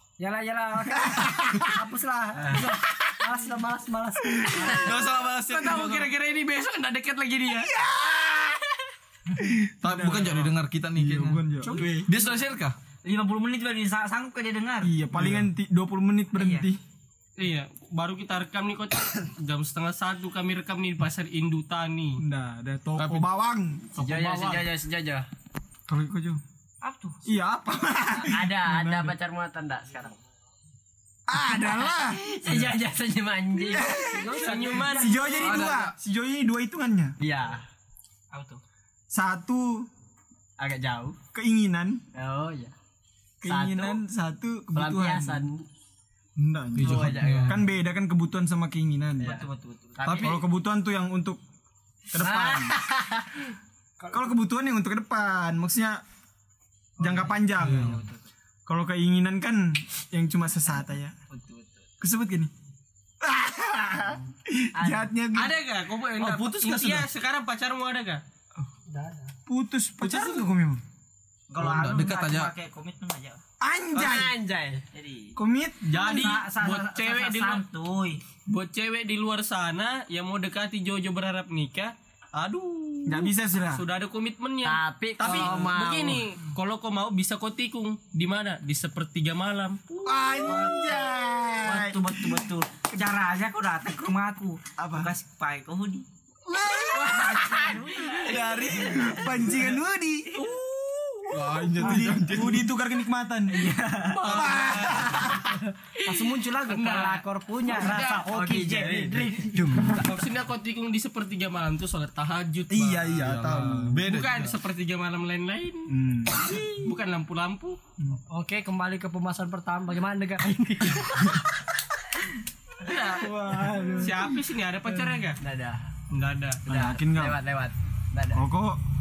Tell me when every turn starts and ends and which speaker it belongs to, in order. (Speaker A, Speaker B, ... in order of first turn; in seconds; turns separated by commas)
Speaker A: 0.2-4.9, Speaker B: 1.1-1.6, Speaker B: 4.4-4.7, Speaker C: 4.6-6.1, Speaker D: 5.5-7.7, Speaker B: 7.8-8.6, Speaker B: 9.4-12.0, Speaker C: 9.8-12.8, Speaker A: 11.6-12.1, Speaker E: 13.0-14.9, Speaker B: 14.8-16.8, Speaker C: 15.2-15.4, Speaker E: 16.4-16.7, Speaker D: 17.4-22.2, Speaker B: 22.2-24.0, Speaker F: 23.9-25.3, Speaker D: 24.0-24.6, Speaker B: 25.9-26.4, Speaker E: 26.8-27.2, Speaker B: 27.2-29.1, Speaker F: 28.2-30.2, Speaker B: 31.3-32.2, Speaker F: 32.0-34.3, Speaker B: 33.7-37.1, Speaker A: 33.8-35.6, Speaker D: 34.4-35.4, Speaker C: 35.4-35.9, Speaker F: 37.2-37.6, Speaker E: 38.3-38.6, Speaker B: 39.1-39.9, Speaker F: 40.6-41.2, Speaker B: 41.3-42.0, Speaker F: 42.1-42.7, Speaker B: 43.4-45.4, Speaker F: 43.5-44.0, Speaker F: 44.7-45.7, Speaker B: 46.4-49.4, Speaker C: 46.8-47.6, Speaker F: 46.8-47.6, Speaker E: 49.2-50.2, Speaker F: 49.2-50.4, Speaker B: 50.0-51.4, Speaker B: 52.1-52.8, Speaker F: 52.2-53.3, Speaker B: 54.1-56.0, Speaker B: 57.0-58.0, Speaker E: 57.0-58.2, Speaker C: 57.6-58.0, Speaker B: 58.7-61.1, Speaker E: 61.3-61.8, Speaker B: 62.0-62.5, Speaker B: 63.2-65.6, Speaker E: 64.8-65.1, Speaker D: 65.3-68.2, Speaker C: 66.2-67.1, Speaker A: 68.9-69.3, Speaker B: 69.5-70.8, Speaker E: 71.5-73.4, Speaker C: 71.6-72.5, Speaker B: 73.6-74.3, Speaker F: 74.0-74.8, Speaker E: 74.9-75.4, Speaker B: 75.4-76.3, Speaker D: 75.9-77.6, Speaker E: 75.9-78.2, Speaker D: 78.5-90.5, Speaker B: 83.1-83.8, Speaker F: 84.6-86.2, Speaker C: 85.2-85.6, Speaker B: 90.0-92.5, Speaker E: 90.5-91.1, Speaker E: 91.6-96.1, Speaker B: 94.8-95.1, Speaker B: 96.5-100.3, Speaker D: 96.9-99.0, Speaker E: 97.0-99.4, Speaker C: 98.3-99.0, Speaker D: 100.3-102.0, Speaker C: 101.3-102.7, Speaker B: 101.8-105.5, Speaker A: 101.8-102.2, Speaker E: 103.5-104.7, Speaker D: 104.1-105.4, Speaker C: 104.4-105.0, Speaker D: 106.0-108.4, Speaker A: 106.0-110.0, Speaker C: 108.5-109.3, Speaker B: 109.4-110.1, Speaker D: 109.9-113.0, Speaker B: 112.7-114.0, Speaker C: 112.9-114.6, Speaker D: 114.0-117.8, Speaker B: 115.9-116.7, Speaker A: 118.3-121.4, Speaker D: 122.8-123.3, Speaker B: 123.2-124.3, Speaker A: 123.5-124.2, Speaker D: 124.0-125.4, Speaker F: 125.4-125.8, Speaker D: 126.1-126.6, Speaker B: 126.7-127.4, Speaker F: 126.7-128.4, Speaker B: 128.3-128.8